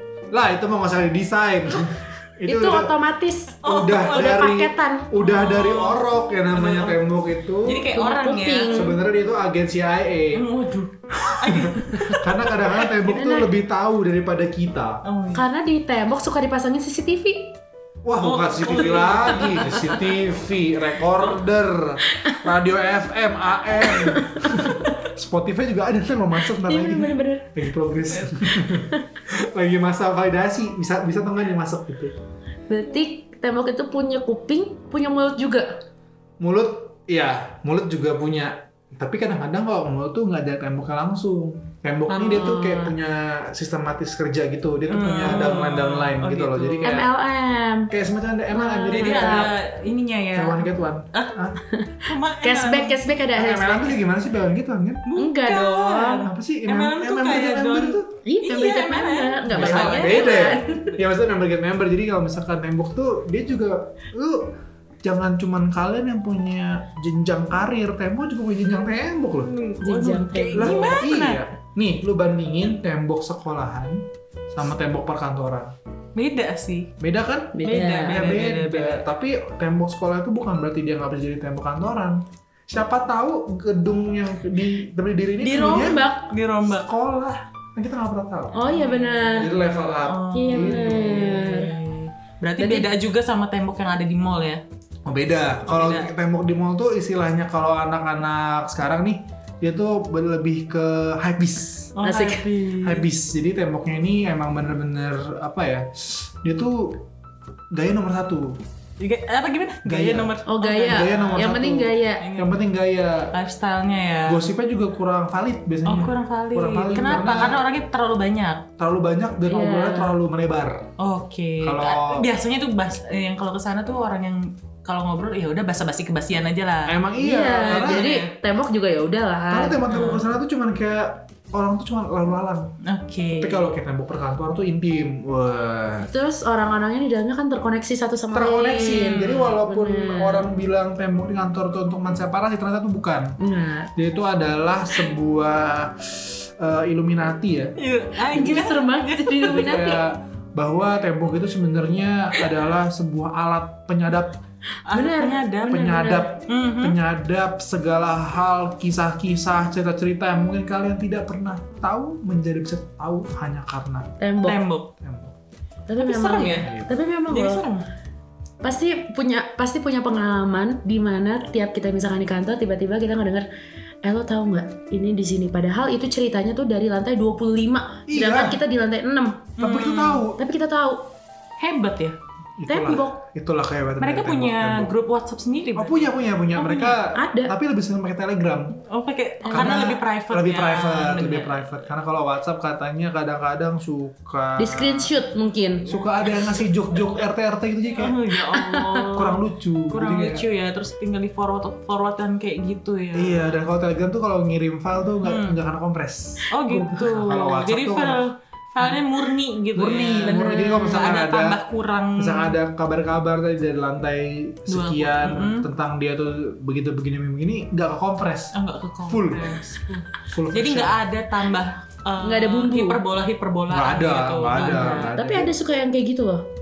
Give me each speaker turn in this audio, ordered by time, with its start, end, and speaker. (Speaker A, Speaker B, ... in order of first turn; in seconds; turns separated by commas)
Speaker A: 0.3-3.0, Speaker B: 2.5-5.1, Speaker C: 3.6-4.5, Speaker A: 3.6-7.9, Speaker C: 5.1-7.0, Speaker C: 7.6-8.9, Speaker B: 7.9-9.0, Speaker A: 8.7-10.5, Speaker C: 10.3-13.0, Speaker A: 11.2-15.0, Speaker B: 13.0-13.5, Speaker C: 15.0-15.4, Speaker B: 15.3-17.6, Speaker A: 18.0-32.1, Speaker C: 18.2-20.1, Speaker B: 22.1-22.4, Speaker B: 23.8-24.8, Speaker B: 26.6-27.5, Speaker B: 28.7-29.0, Speaker B: 32.7-35.7, Speaker A: 36.4-47.1, Speaker B: 42.1-42.9, Speaker C: 44.9-46.9, Speaker B: 46.8-47.9, Speaker A: 47.9-49.5, Speaker B: 48.5-49.5, Speaker C: 48.9-51.5, Speaker A: 50.3-51.6, Speaker B: 51.7-54.0, Speaker C: 52.0-53.0, Speaker A: 53.4-55.0, Speaker C: 55.0-61.0, Speaker B: 55.1-56.3, Speaker A: 56.2-58.1, Speaker B: 58.2-60.9, Speaker A: 59.5-64.5, Speaker A: 65.0-69.5, Speaker C: 69.4-71.4, Speaker B: 69.8-70.9, Speaker A: 70.5-75.7, Speaker C: 76.1-76.9, Speaker A: 77.0-86.0, Speaker B: 77.5-78.2, Speaker C: 77.6-79.0, Speaker B: 85.4-86.3, Speaker C: 86.3-86.9, Speaker A: 86.6-88.6, Speaker B: 88.5-89.5, Speaker C: 88.7-89.5, Speaker A: 89.3-91.3, Speaker C: 90.0-94.6, Speaker B: 90.3-91.7, Speaker B: 92.6-92.9, Speaker A: 95.0-101.9, Speaker C: 95.7-96.1, Speaker C: 101.9-103.0, Speaker B: 102.0-102.5, Speaker A: 102.8-107.0, Speaker A: 107.7-108.6, Speaker C: 109.0-111.5, Speaker A: 109.8-113.3, Speaker B: 110.5-112.3, Speaker C: 112.2-112.6, Speaker C: 113.3-114.4, Speaker A: 114.2-117.6, Speaker C: 115.8-118.6, Speaker A: 118.8-120.8, Speaker B: 119.5-120.2, Speaker C: 121.0-127.0, Speaker A: 121.6-122.3, Speaker A: 126.8-128.1, Speaker B: 127.2-130.0, Speaker C: 127.6-128.3, Speaker A: 129.5-132.7, Speaker C: 129.9-130.2, Speaker C: 132.8-133.7, Speaker A: 133.4-136.1, Speaker B: 136.0-140.5, Speaker A: 138.3-143.4, Speaker C: 138.8-139.6, Speaker B: 143.4-143.9, Speaker A: 143.9-147.8, Speaker C: 147.8-149.4, Speaker B: 148.3-150.0, Speaker A: 148.3-148.7, Speaker A: 149.4-154.4, Speaker B: 154.9-156.2, Speaker C: 154.9-157.0, Speaker A: 155.6-164.1, Speaker B: 164.2-164.6, Speaker C: 164.4-164.9, Speaker A: 165.0-165.3, Speaker B: 165.9-167.6, Speaker C: 166.0-166.7, Speaker A: 166.6-166.9, Speaker C: 167.3-167.8, Speaker B: 168.6-173.4, Speaker B: 174.0-179.5, Speaker A: 178.1-178.6, Speaker C: 179.6-180.2, Speaker A: 179.6-180.4, Speaker B: 180.4-181.1, Speaker C: 181.6-182.2, Speaker A: 182.6-184.9, Speaker B: 182.7-183.2, Speaker C: 184.0-187.0, Speaker A: 185.8-188.8, Speaker B: 187.1-187.5, Speaker C: 188.8-191.8, Speaker B: 189.4-189.8, Speaker A: 189.5-195.1, Speaker B: 194.6-196.0, Speaker A: 195.8-198.2, Speaker C: 198.0-203.5, Speaker B: 198.5-199.1, Speaker A: 199.1-200.4, Speaker A: 203.1-208.2, Speaker C: 205.2-205.6, Speaker C: 206.5-212.6, Speaker A: 209.7-211.6, Speaker B: 210.1-211.1, Speaker A: 212.2-218.6, Speaker C: 214.7-215.7, Speaker C: 218.5-225.1, Speaker A: 219.1-219.6, Speaker A: 220.3-221.0, Speaker B: 222.2-223.0, Speaker A: 223.7-225.5, Speaker B: 224.5-226.4